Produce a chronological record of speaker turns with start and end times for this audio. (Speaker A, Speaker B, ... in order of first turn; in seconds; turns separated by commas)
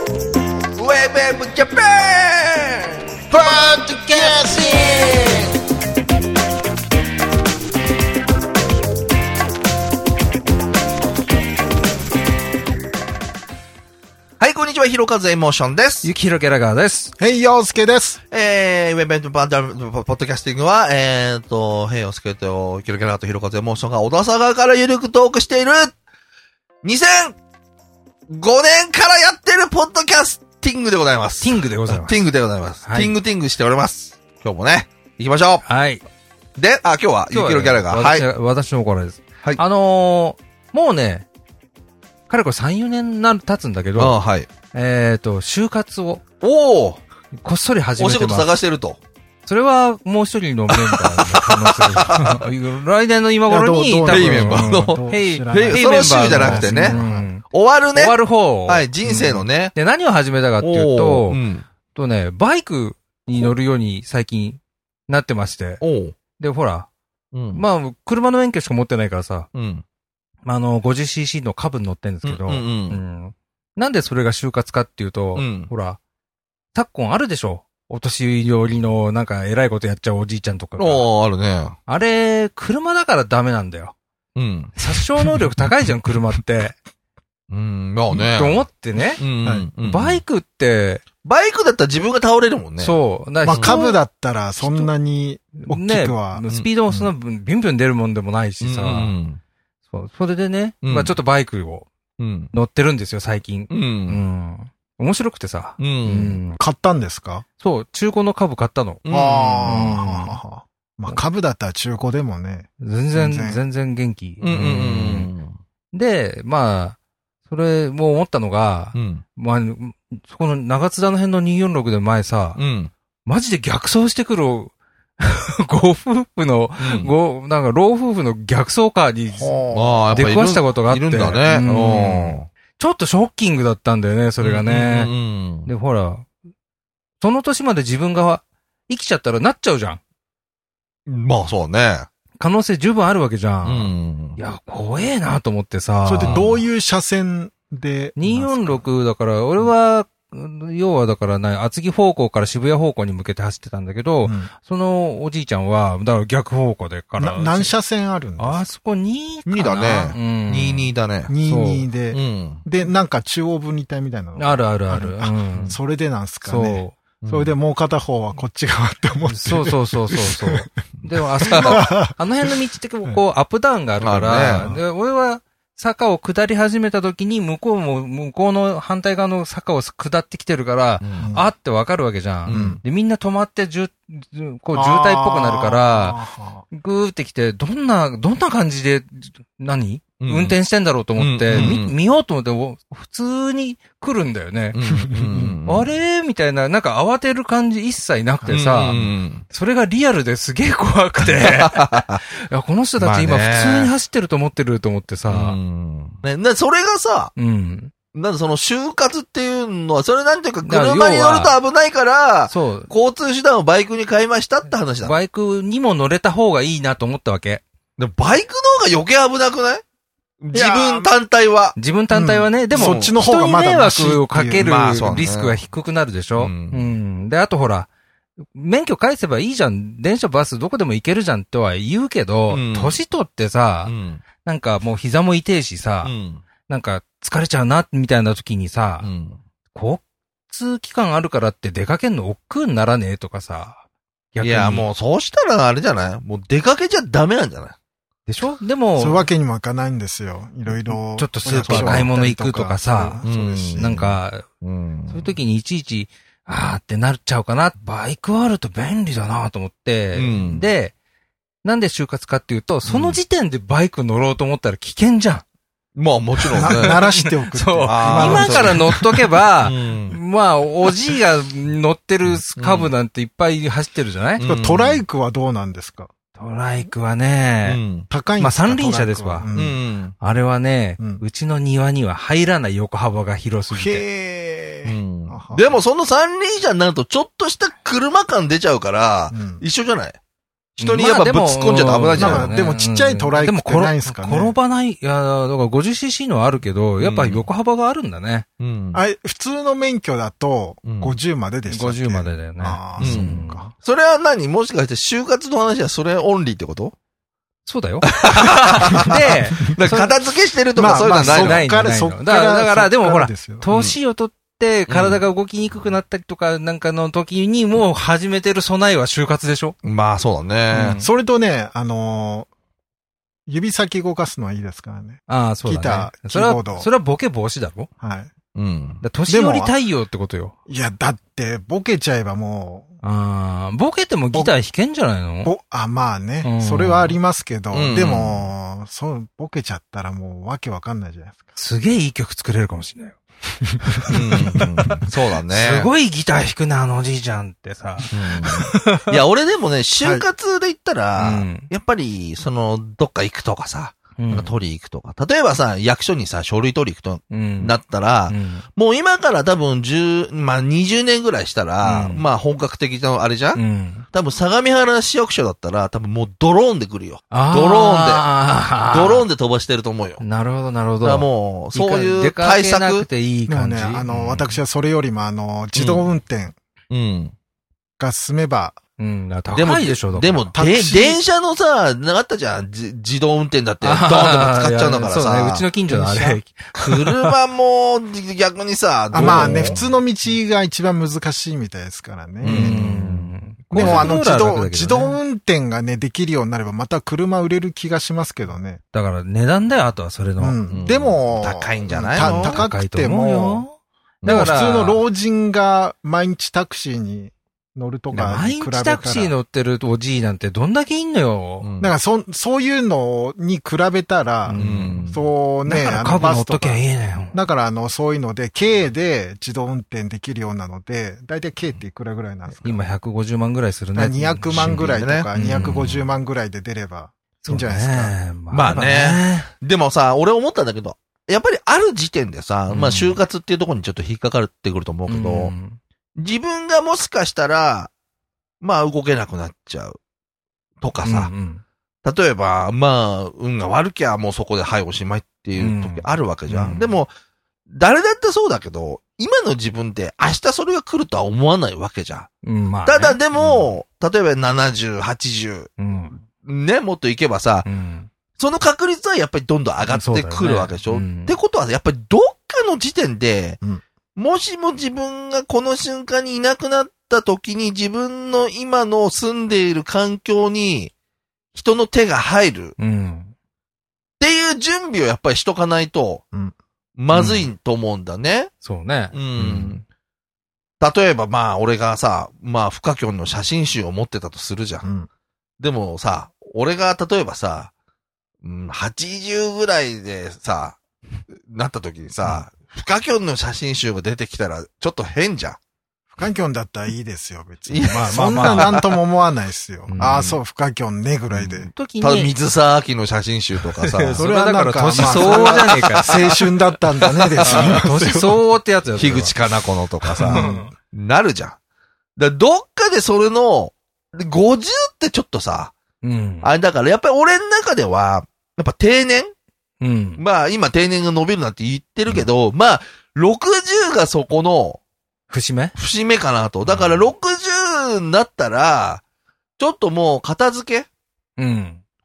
Speaker A: 0.8-3.0, Speaker B: 3.3-5.5, Speaker A: 14.4-16.1, Speaker B: 16.0-17.1, Speaker C: 17.2-18.2, Speaker A: 18.3-25.9, Speaker A: 26.8-27.4, Speaker A: 28.3-35.6, Speaker B: 31.4-32.3, Speaker B: 32.8-33.1, Speaker B: 35.7-36.0, Speaker A: 36.6-38.2, Speaker B: 37.3-41.3, Speaker B: 42.3-44.2, Speaker A: 44.0-44.5, Speaker B: 44.7-46.2, Speaker A: 46.4-47.0, Speaker B: 47.4-48.5, Speaker A: 48.0-49.0, Speaker B: 49.5-57.4, Speaker A: 50.7-52.4, Speaker C: 53.5-57.3, Speaker A: 54.1-59.7, Speaker B: 58.0-61.4, Speaker A: 60.6-61.6, Speaker B: 61.9-65.8, Speaker A: 65.8-66.2, Speaker B: 66.4-66.9, Speaker A: 67.3-67.6, Speaker B: 67.5-69.5, Speaker A: 69.5-69.8, Speaker B: 70.5-76.0, Speaker A: 72.2-73.0, Speaker A: 75.4-75.7, Speaker B: 76.7-81.1, Speaker A: 80.8-81.8, Speaker B: 81.9-83.9, Speaker A: 84.3-84.8, Speaker B: 84.8-86.8, Speaker A: 87.5-88.7, Speaker B: 88.1-89.2, Speaker A: 89.2-90.2, Speaker B: 89.8-91.0, Speaker A: 91.2-93.0, Speaker B: 92.8-94.0, Speaker C: 93.4-97.1, Speaker A: 93.5-93.8, Speaker B: 94.6-94.9, Speaker B: 95.6-99.1, Speaker A: 98.6-99.4, Speaker B: 99.9-101.9, Speaker A: 100.8-101.2, Speaker A: 102.2-102.5, Speaker B: 102.5-106.6, Speaker A: 103.7-104.2, Speaker A: 105.8-106.4, Speaker C: 106.6-107.5, Speaker B: 107.6-109.0, Speaker A: 109.0-110.0, Speaker C: 109.1-113.6, Speaker B: 109.7-110.4, Speaker B: 112.8-115.3, Speaker A: 114.4-115.5, Speaker B: 115.9-122.6, Speaker A: 118.9-119.2, Speaker A: 122.6-122.9, Speaker B: 123.3-129.6, Speaker A: 126.8-127.1, Speaker C: 129.4-130.3, Speaker A: 129.7-132.5, Speaker B: 130.1-135.1, Speaker A: 134.4-135.7, Speaker B: 135.7-136.3, Speaker B: 137.2-140.0, Speaker A: 141.1-142.1, Speaker B: 142.4-146.6, Speaker A: 143.6-144.4, Speaker C: 146.1-148.8, Speaker A: 146.2-146.5, Speaker B: 148.2-157.7, Speaker C: 154.2-154.5, Speaker C: 157.2-158.7, Speaker B: 158.4-160.9, Speaker A: 159.5-161.3, Speaker C: 161.3-170.7, Speaker B: 161.4-161.9, Speaker A: 162.1-162.6, Speaker B: 164.4-165.7, Speaker B: 166.4-167.0, Speaker A: 167.2-167.5, Speaker B: 169.3-205.6, Speaker C: 171.5-172.1, Speaker A: 171.5-171.8, Speaker A: 174.0-174.7, Speaker A: 181.0-181.3, Speaker C: 181.2-181.5, Speaker A: 182.5-182.8, Speaker C: 182.5-182.8, Speaker C: 184.7-186.7, Speaker A: 190.2-190.6, Speaker A: 191.2-192.0, Speaker C: 191.5-191.8, Speaker A: 194.7-195.9, Speaker C: 195.1-195.6, Speaker A: 198.5-199.4, Speaker A: 201.2-202.2, Speaker A: 203.0-203.9, Speaker A: 205.3-207.3, Speaker B: 207.4-207.9, Speaker A: 208.1-215.2, Speaker B: 210.6-211.6, Speaker B: 212.5-212.9, Speaker B: 215.0-217.6, Speaker A: 218.0-219.8, Speaker A: 220.4-221.8, Speaker C: 220.5-221.1, Speaker B: 221.8-227.9, Speaker C: 222.1-225.0, Speaker A: 222.7-223.2, Speaker A: 224.6-225.6, Speaker A: 226.4-226.9, Speaker B: 228.5-236.1, Speaker A: 232.5-233.0, Speaker A: 233.9-234.2, Speaker A: 236.0-236.4, Speaker B: 236.7-239.1, Speaker A: 239.0-239.4, Speaker B: 239.7-243.8, Speaker B: 244.3-244.8, Speaker A: 244.4-247.8, Speaker B: 248.3-249.3, Speaker C: 249.0-254.0, Speaker B: 250.7-253.2, Speaker A: 251.7-252.1, Speaker A: 253.2-255.3, Speaker B: 253.8-254.5, Speaker B: 255.1-260.9, Speaker A: 260.1-260.7, Speaker B: 261.6-265.4, Speaker A: 262.9-263.2, Speaker A: 265.9-267.0, Speaker B: 266.4-274.4, Speaker C: 266.6-268.9, Speaker A: 267.9-268.9, Speaker A: 269.6-270.2, Speaker A: 272.6-272.9, Speaker A: 274.4-275.0, Speaker C: 274.4-276.1, Speaker B: 276.4-277.8, Speaker A: 277.6-278.1, Speaker C: 278.1-279.8, Speaker B: 278.4-279.5, Speaker A: 279.5-280.1, Speaker B: 280.2-284.0, Speaker C: 283.7-285.8, Speaker A: 284.9-290.2, Speaker C: 289.3-289.6, Speaker A: 290.8-292.5, Speaker B: 290.8-298.5, Speaker C: 292.1-294.6, Speaker A: 297.0-297.5, Speaker A: 298.6-299.0, Speaker C: 298.9-303.7, Speaker A: 300.8-301.1, Speaker B: 301.7-303.7, Speaker A: 303.0-306.9, Speaker B: 307.7-310.1, Speaker A: 308.1-311.6, Speaker C: 308.9-309.4, Speaker C: 310.8-313.7, Speaker B: 310.9-319.8, Speaker A: 313.7-314.0, Speaker A: 314.9-315.2, Speaker A: 319.8-321.0, Speaker B: 320.7-321.1, Speaker C: 321.0-322.5, Speaker C: 323.5-326.9, Speaker B: 325.3-327.9, Speaker C: 328.0-328.3, Speaker A: 328.6-329.0, Speaker B: 329.0-330.5, Speaker C: 329.3-329.7, Speaker C: 330.7-332.9, Speaker B: 333.0-335.5, Speaker C: 335.4-341.4, Speaker B: 336.4-337.2, Speaker A: 337.7-338.5, Speaker B: 341.6-343.2, Speaker B: 343.8-344.9, Speaker A: 344.1-345.9, Speaker B: 345.5-349.2, Speaker A: 348.1-363.6, Speaker C: 350.0-350.3, Speaker B: 351.2-351.7, Speaker B: 354.2-354.5, Speaker B: 357.3-357.8, Speaker B: 358.3-358.6, Speaker B: 361.8-362.2, Speaker B: 363.6-364.1, Speaker A: 364.1-368.3, Speaker B: 367.3-369.3, Speaker A: 368.9-370.2, Speaker B: 370.2-374.5, Speaker A: 371.0-373.1, Speaker C: 373.5-376.6, Speaker A: 374.1-374.4, Speaker A: 375.7-376.1, Speaker A: 376.9-377.4, Speaker C: 378.0-378.8, Speaker B: 379.0-380.5, Speaker A: 379.5-385.7, Speaker C: 380.6-381.2, Speaker B: 383.8-387.3, Speaker C: 385.9-386.4, Speaker A: 386.8-389.8, Speaker C: 389.1-392.8, Speaker B: 389.1-390.0, Speaker A: 392.4-394.2, Speaker B: 392.4-395.2, Speaker C: 393.7-398.8, Speaker B: 398.9-400.6, Speaker C: 400.4-403.7, Speaker A: 400.7-402.6, Speaker B: 402.2-405.0, Speaker A: 404.2-404.7, Speaker C: 404.3-409.4, Speaker B: 408.1-411.7, Speaker A: 411.6-411.9, Speaker C: 411.8-422.8, Speaker B: 414.5-415.1, Speaker A: 414.6-415.2, Speaker B: 415.7-417.4, Speaker B: 422.6-426.1, Speaker C: 423.9-428.1, Speaker A: 424.5-425.7, Speaker B: 427.4-429.5, Speaker A: 428.5-435.5, Speaker B: 432.7-433.2, Speaker B: 435.1-435.8, Speaker A: 436.2-437.9, Speaker A: 438.6-440.0, Speaker A: 440.8-441.3, Speaker B: 441.0-441.6, Speaker A: 442.0-447.1, Speaker B: 445.6-447.0, Speaker A: 447.7-452.3, Speaker B: 452.4-453.7, Speaker A: 452.9-455.7, Speaker B: 455.8-456.2, Speaker A: 456.4-457.7, Speaker B: 457.6-458.1, Speaker A: 458.4-463.6, Speaker B: 459.9-461.4, Speaker A: 464.2-470.9, Speaker A: 471.5-472.8, Speaker B: 472.8-473.3, Speaker A: 474.2-476.2, Speaker A: 477.0-478.5, Speaker B: 477.1-477.5, Speaker B: 478.6-479.7, Speaker A: 479.1-479.8, Speaker A: 480.8-484.9, Speaker A: 485.6-487.7, Speaker A: 488.4-490.8, Speaker A: 491.3-495.6, Speaker C: 496.1-501.7, Speaker A: 497.7-498.9, Speaker B: 497.9-498.8, Speaker B: 499.9-500.4, Speaker B: 501.4-502.3, Speaker A: 502.0-504.3, Speaker B: 503.6-506.3, Speaker C: 504.2-508.4, Speaker A: 504.9-506.4, Speaker A: 507.0-507.8, Speaker B: 507.4-509.3, Speaker A: 509.0-511.6, Speaker B: 510.2-510.7, Speaker C: 510.2-510.7, Speaker A: 512.2-515.7, Speaker B: 516.0-516.5, Speaker A: 516.4-519.3, Speaker B: 519.8-520.2, Speaker A: 520.2-524.8, Speaker B: 525.3-525.8, Speaker A: 525.8-529.0, Speaker A: 529.6-530.9, Speaker B: 531.4-531.8